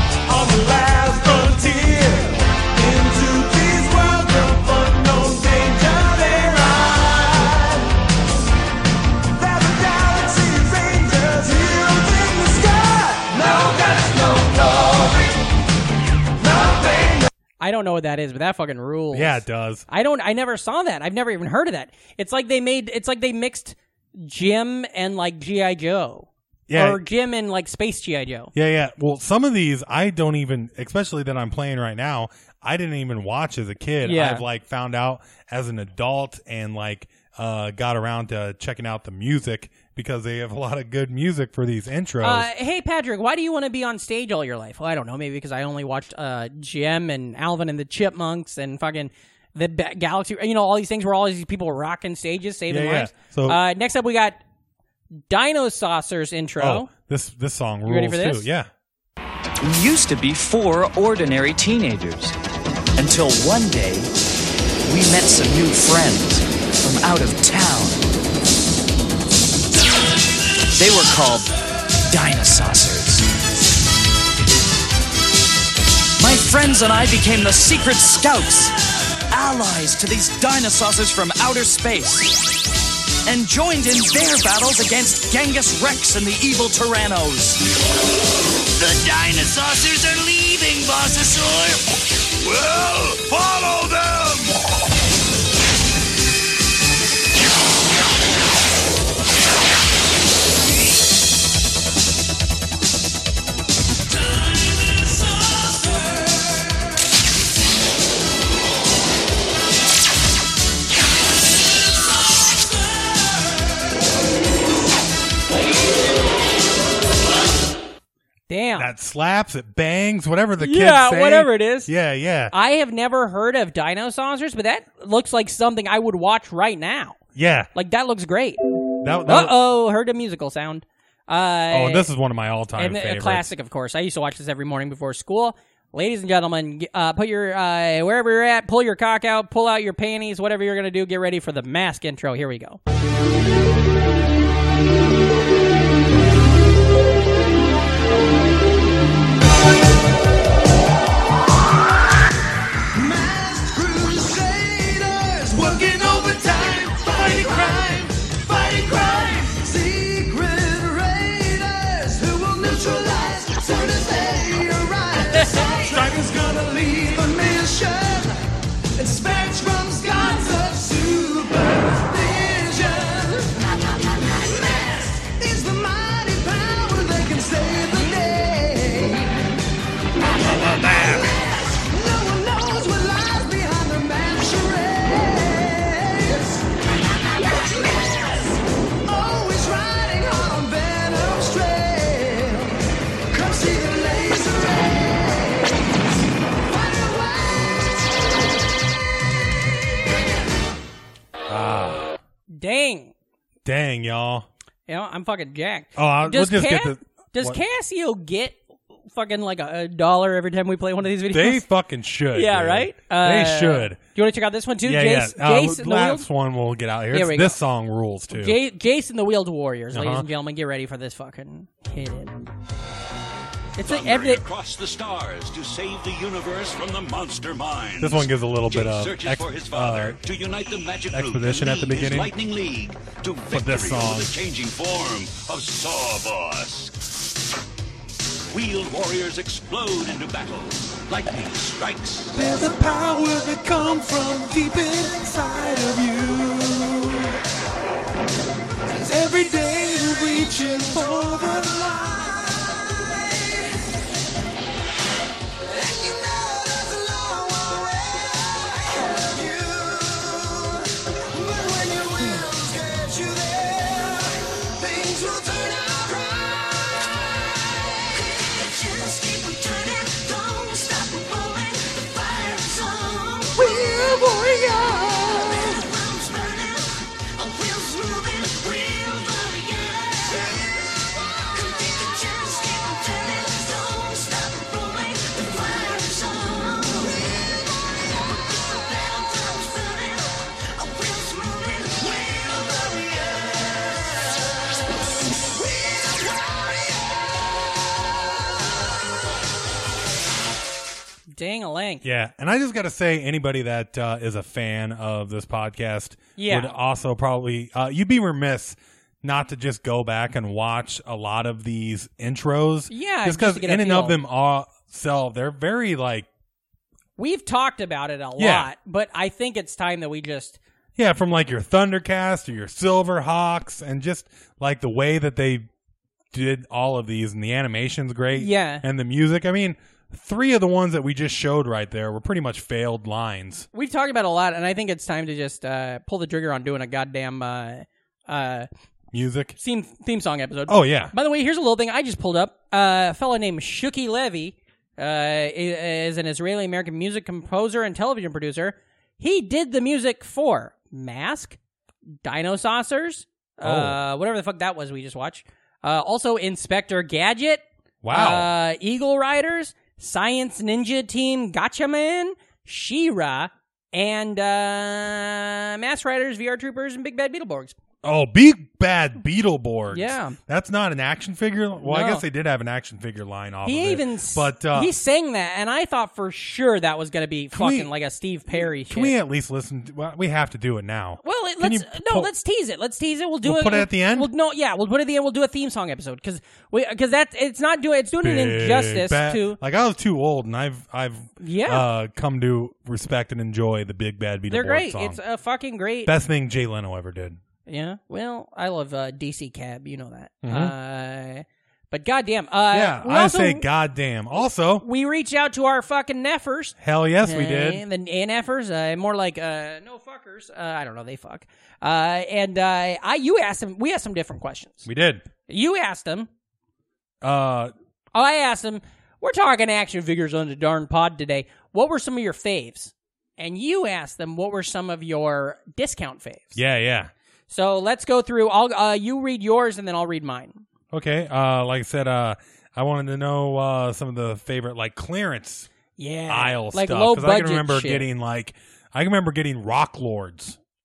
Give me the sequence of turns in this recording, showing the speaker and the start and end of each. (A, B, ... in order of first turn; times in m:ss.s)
0:00.3-0:07.9 A
0:09.3-0:15.5 A
0:16.4-0:17.3 A
0:17.6-0:28.5 B
0:19.1-0:19.8 C
0:26.7-0:27.0 C
0:28.5-0:42.5 C
0:34.0-0:34.4 B
0:42.2-0:54.4 B
0:52.7-0:53.6 C
0:55.3-0:56.9 B
0:56.6-0:58.7 C
0:57.8-0:58.5 B
0:59.6-1:02.3 D
1:03.0-1:04.1 D
1:04.8-1:08.0 D
1:10.7-1:11.5 D
1:12.1-1:13.3 D
1:16.2-1:18.8 D
1:19.3-1:22.3 D
1:23.2-1:27.6 D
1:28.8-1:31.8 D
1:32.4-1:34.5 E
1:58.5-1:58.9 B
1:58.8-2:02.5 C
2:00.6-2:01.9 B
2:02.5-2:07.2 B
2:07.3-2:07.7 C
2:07.7-2:08.6 B
2:09.0-2:09.6 C
2:09.2-2:12.1 B
2:11.7-2:13.5 C
2:12.8-2:22.8 B
2:32.9-2:48.4 A
2:49.0-2:59.4 A
3:00.5-3:06.7 A
3:07.2-3:12.8 A
3:13.3-3:15.8 A
3:16.6-3:17.9 A
3:21.5-3:22.2 C
3:22.5-3:23.1 B
3:23.6-3:24.5 C
3:24.9-3:28.6 B
3:26.0-3:27.6 C
3:29.1-3:31.6 B
3:31.2-3:34.0 C
3:32.3-3:36.2 B
3:34.8-3:38.6 C
3:37.1-3:37.6 B
3:38.3-3:42.5 B
3:39.9-3:40.3 C
3:43.8-3:44.4 B
3:43.8-3:56.9 E
3:48.0-3:50.2 C
3:51.1-3:52.3 C
3:53.5-3:54.3 C
3:58.5-4:02.4 E
4:02.3-4:06.6 C
4:02.5-4:03.3 A
4:04.0-4:05.8 A
4:06.4-4:07.3 A
4:09.1-4:13.8 A
4:09.1-4:12.2 C
4:15.7-4:40.6 A
4:41.5-4:47.2 A
4:48.9-4:50.2 A
4:50.8-4:53.4 A
5:01.3-5:02.0 B
5:02.0-5:16.3 C
5:06.4-5:06.7 B
5:12.9-5:14.2 B
5:17.2-5:20.6 B
5:18.4-5:18.7 C
5:21.0-5:25.7 C
5:26.3-5:33.7 C
5:28.3-5:28.8 B
5:33.7-5:38.7 B
5:39.1-5:39.6 C
5:39.6-5:51.6 B
5:40.7-5:41.1 C
5:52.2-6:07.8 B
5:53.6-5:54.0 C
5:58.0-5:58.5 C
6:08.0-6:14.9 C
6:09.9-6:10.4 B
6:11.8-6:12.2 B
6:13.6-6:19.1 B
6:17.5-6:17.9 C
6:18.5-6:22.3 C
6:21.2-6:29.6 B
6:23.4-6:24.3 C
6:28.2-6:35.2 C
6:31.4-6:31.9 B
6:34.5-6:36.1 B
6:36.0-6:37.4 C
6:37.7-6:43.7 B
6:40.4-6:40.7 C
6:42.7-6:44.8 C
6:44.8-6:54.9 B
6:46.8-6:47.8 C
6:54.8-6:55.2 C
6:55.5-6:56.3 B
6:57.2-6:57.7 C
6:58.1-7:06.6 B
7:06.5-7:07.1 C
7:07.5-7:10.6 B
7:10.9-7:15.7 C
7:16.0-7:18.1 B
7:16.3-7:20.6 C